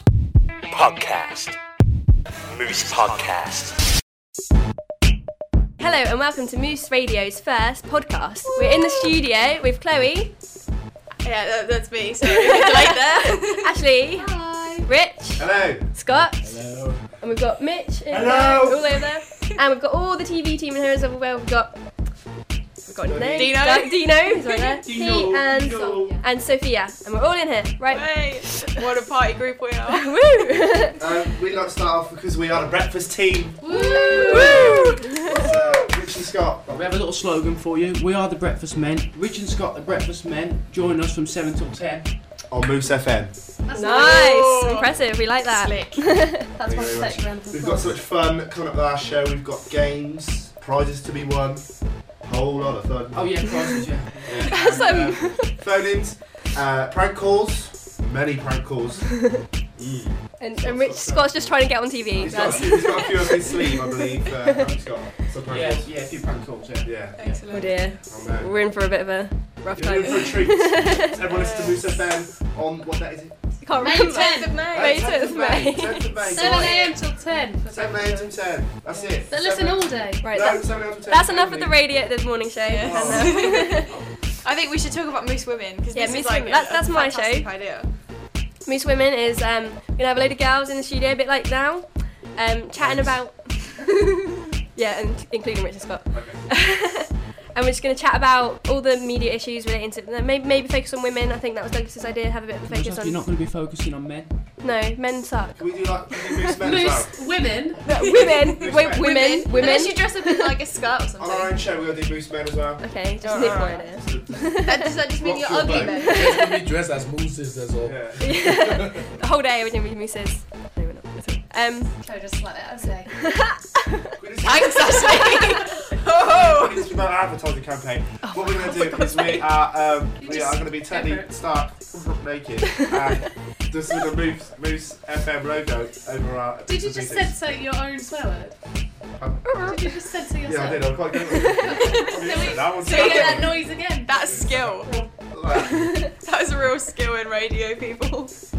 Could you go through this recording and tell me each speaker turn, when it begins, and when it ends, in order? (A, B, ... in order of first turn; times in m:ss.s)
0:00.7-0:01.6 A
0:02.5-0:03.7 A
0:05.8-0:10.4 B
0:11.2-0:14.9 C
0:13.5-0:16.6 B
0:15.4-0:15.9 D
0:16.4-0:16.9 E
0:17.2-0:28.6 B
0:18.1-0:19.0 D
0:23.0-0:23.8 D
0:23.3-0:24.2 C
0:24.6-0:26.2 D
0:27.9-0:30.1 C
0:29.9-0:31.0 B
0:31.0-0:33.7 D
0:33.9-0:34.4 F
0:34.1-0:35.4 B
0:34.3-0:36.8 D
0:36.7-0:42.1 E
0:42.5-0:43.4 D
0:43.7-0:46.5 B
0:43.7-0:46.3 C
0:46.6-0:47.8 F
0:46.6-0:53.3 D
0:53.1-0:54.5 E
0:53.5-0:53.8 B
0:54.2-1:05.9 D
0:54.5-0:55.5 B
1:00.4-1:04.7 B
1:05.5-1:07.4 E
1:06.8-1:07.2 D
1:07.2-1:08.0 C
1:07.5-1:11.1 B
1:07.8-1:08.6 D
1:09.7-1:13.4 D
1:11.2-1:11.8 C
1:13.6-1:16.8 B
1:13.8-1:14.5 F
1:13.9-1:15.3 C
1:14.7-1:21.9 D
1:16.4-1:18.2 F
1:16.4-1:17.0 C
1:19.3-1:20.1 F
1:20.2-1:23.9 B
1:22.7-1:27.9 C
1:22.7-1:24.0 D
1:25.9-1:27.5 B
1:28.6-1:43.2 B
1:32.8-1:33.3 D
1:36.1-1:36.5 D
1:42.6-1:44.5 E
1:44.6-1:46.5 B
1:45.6-1:47.1 D
1:46.6-1:47.6 F
1:47.8-1:50.5 B
1:47.9-1:49.8 D
1:47.9-1:51.5 C
1:51.2-1:56.1 D
1:52.8-1:54.8 B
1:53.2-1:53.9 C
1:54.6-1:56.3 C
1:55.6-1:59.0 G
1:56.0-1:56.6 B
1:57.8-1:58.7 D
1:58.2-2:02.0 B
2:02.1-2:03.1 F
2:03.1-2:04.1 B
2:04.2-2:05.3 D
2:04.4-2:06.9 C
2:04.9-2:05.6 B
2:06.3-2:17.4 D
2:08.3-2:09.5 B
2:12.8-2:13.1 B
2:16.9-2:18.5 F
2:19.2-2:19.6 D
2:19.4-2:20.1 B
2:19.7-2:20.5 F
2:20.4-2:25.9 D
2:21.3-2:22.2 B
2:21.6-2:24.9 C
2:23.2-2:24.0 F
2:25.5-2:26.1 B
2:25.6-2:28.4 C